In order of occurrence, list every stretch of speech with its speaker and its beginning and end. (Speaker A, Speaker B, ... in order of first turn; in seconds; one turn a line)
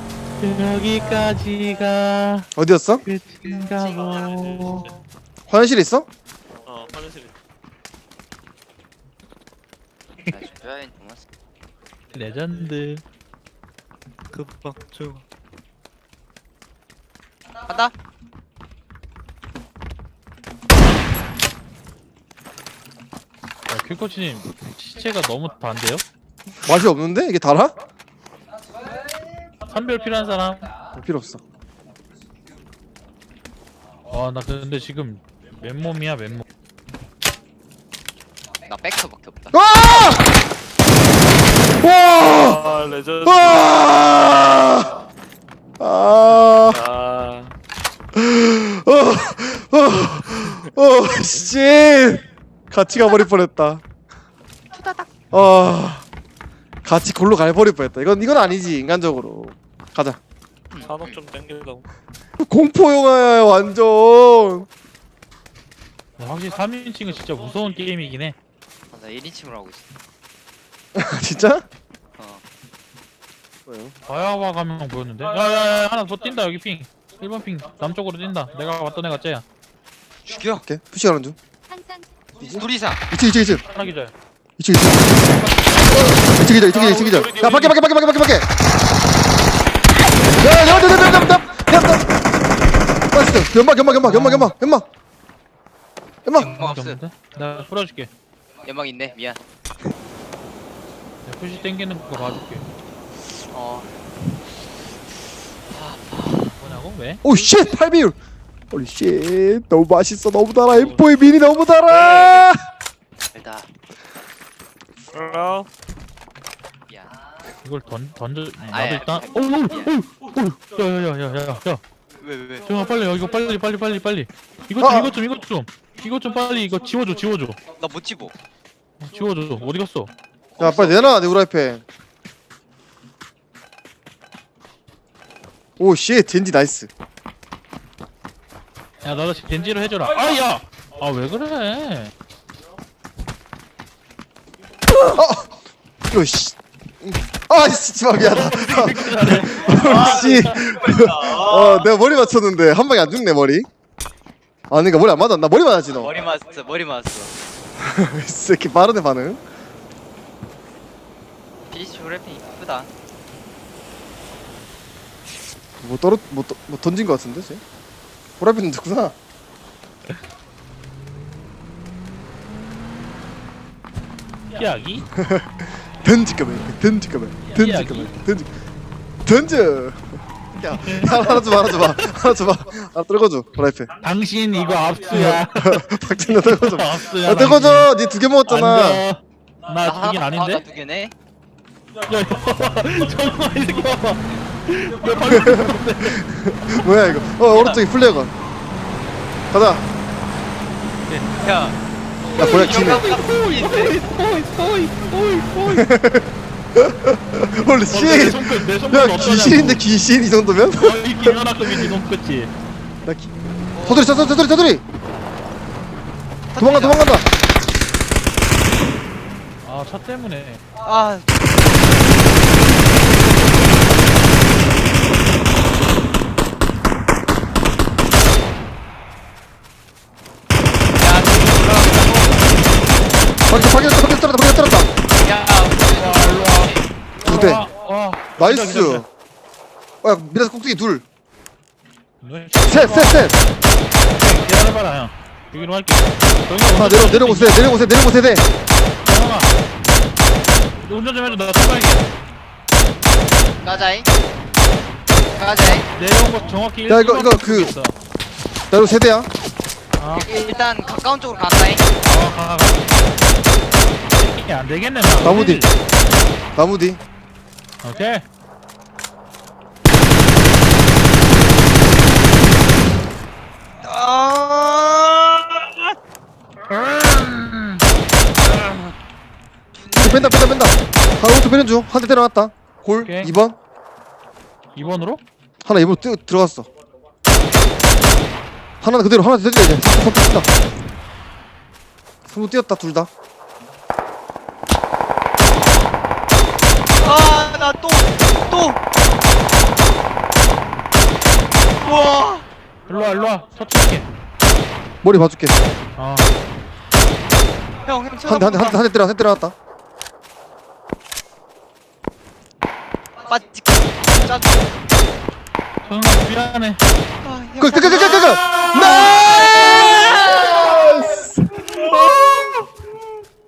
Speaker A: 0.4-2.5
Speaker B: 2.5-3.0
Speaker A: 3.0-4.9
Speaker C: 4.3-4.9
Speaker B: 5.5-6.1
Speaker C: 6.7-7.3
Speaker D: 10.3-11.2
Speaker A: 12.1-13.0
Speaker D: 14.3-14.9
Speaker D: 17.6-17.9
Speaker A: 23.7-26.0
Speaker B: 26.6-27.7
Speaker A: 29.6-30.7
Speaker B: 30.9-31.4
Speaker A: 34.1-36.4
Speaker D: 38.6-39.5
Speaker B: 39.5-40.3
Speaker B: 41.8-42.7
Speaker C: 42.2-43.7
Speaker B: 43.2-45.0
Speaker B: 45.8-46.8
Speaker C: 46.7-47.5
Speaker B: 48.1-53.8
Speaker D: 54.7-55.1
Speaker B: 55.3-56.0
Speaker B: 56.8-60.2
Speaker D: 60.7-61.2
Speaker C: 60.8-61.9
Speaker B: 62.4-64.7
Speaker A: 66.2-68.4
Speaker D: 68.9-69.8
Speaker B: 70.9-71.7
Speaker B: 73.7-73.9
Speaker A: 74.0-79.4
Speaker D: 80.2-80.6
Speaker B: 80.6-81.3
Speaker B: 82.4-83.6
Speaker D: 82.4-83.0
Speaker A: 83.6-84.1
Speaker B: 84.6-85.3
Speaker A: 85.2-87.9
Speaker B: 85.9-88.5
Speaker B: 90.4-92.1
Speaker B: 93.1-94.8
Speaker A: 94.0-94.5
Speaker B: 96.2-96.5
Speaker D: 96.3-97.0
Speaker A: 96.4-98.1
Speaker D: 98.6-99.4
Speaker A: 101.2-102.6
Speaker D: 102.2-102.6
Speaker D: 103.5-103.9
Speaker D: 105.7-106.6
Speaker A: 106.6-107.2
Speaker B: 107.2-108.2
Speaker B: 108.7-112.6
Speaker C: 110.8-111.0
Speaker C: 111.9-112.5
Speaker D: 113.3-113.7
Speaker C: 115.1-115.7
Speaker D: 116.9-117.2
Speaker A: 117.6-121.8
Speaker D: 118.7-119.9
Speaker D: 122.2-122.7
Speaker A: 122.6-127.6
Speaker B: 124.8-125.2
Speaker D: 127.8-128.3
Speaker A: 129.0-130.1
Speaker D: 130.6-131.1
Speaker B: 130.6-131.8
Speaker B: 135.8-136.9
Speaker A: 139.0-142.1
Speaker B: 145.0-145.5
Speaker B: 146.1-153.7
Speaker A: 148.2-150.8
Speaker D: 151.3-151.9
Speaker B: 154.7-156.2
Speaker D: 155.9-157.3
Speaker B: 157.8-159.4
Speaker D: 161.7-162.9
Speaker B: 165.8-167.6
Speaker B: 168.4-169.2
Speaker A: 174.5-175.1
Speaker B: 175.1-178.5
Speaker A: 177.5-178.2
Speaker B: 179.2-183.9
Speaker A: 180.7-182.1
Speaker A: 184.0-190.6
Speaker B: 185.1-189.0
Speaker D: 189.8-191.1
Speaker A: 192.1-196.2
Speaker B: 195.2-198.3
Speaker D: 197.5-197.8
Speaker B: 199.5-199.8
Speaker A: 201.1-201.3
Speaker D: 201.3-201.8
Speaker A: 202.3-205.9
Speaker B: 202.4-203.0
Speaker D: 202.4-204.0
Speaker B: 205.7-211.7
Speaker A: 207.9-209.9
Speaker A: 210.7-212.5
Speaker B: 213.0-213.3
Speaker D: 213.7-214.3
Speaker B: 213.8-214.8
Speaker D: 216.5-217.2
Speaker B: 216.6-217.2
Speaker A: 219.6-220.6
Speaker D: 220.8-221.3
Speaker D: 230.9-232.5
Speaker B: 233.5-234.9
Speaker D: 235.1-236.8
Speaker A: 235.8-239.0
Speaker B: 237.2-237.6
Speaker B: 238.4-239.1
Speaker B: 240.0-241.0
Speaker A: 242.2-243.4
Speaker B: 242.7-243.3
Speaker A: 244.1-247.8
Speaker B: 246.7-248.5
Speaker A: 249.0-249.5
Speaker A: 250.8-252.1
Speaker D: 253.6-254.1
Speaker D: 255.2-255.8
Speaker A: 255.6-257.9
Speaker B: 256.9-257.7
Speaker B: 258.7-259.3
Speaker A: 260.0-260.3
Speaker D: 260.1-261.9
Speaker A: 262.0-262.9
Speaker A: 264.1-265.7
Speaker B: 265.2-265.6
Speaker B: 266.6-267.0
Speaker A: 267.8-268.2
Speaker D: 273.8-275.9
Speaker D: 277.0-277.7
Speaker D: 278.5-278.8
Speaker D: 279.9-280.4
Speaker B: 279.9-283.6
Speaker A: 283.0-283.3
Speaker A: 284.7-285.2
Speaker B: 285.6-286.7
Speaker B: 288.8-290.5
Speaker B: 292.3-293.1
Speaker D: 297.0-298.8
Speaker D: 301.8-302.4
Speaker A: 302.9-304.1
Speaker B: 305.0-305.6
Speaker A: 305.9-306.3
Speaker D: 307.8-308.8
Speaker B: 308.2-309.5
Speaker D: 313.2-314.7
Speaker A: 315.8-316.8
Speaker D: 317.2-320.9
Speaker B: 317.6-322.1
Speaker A: 318.5-319.2
Speaker D: 321.7-322.5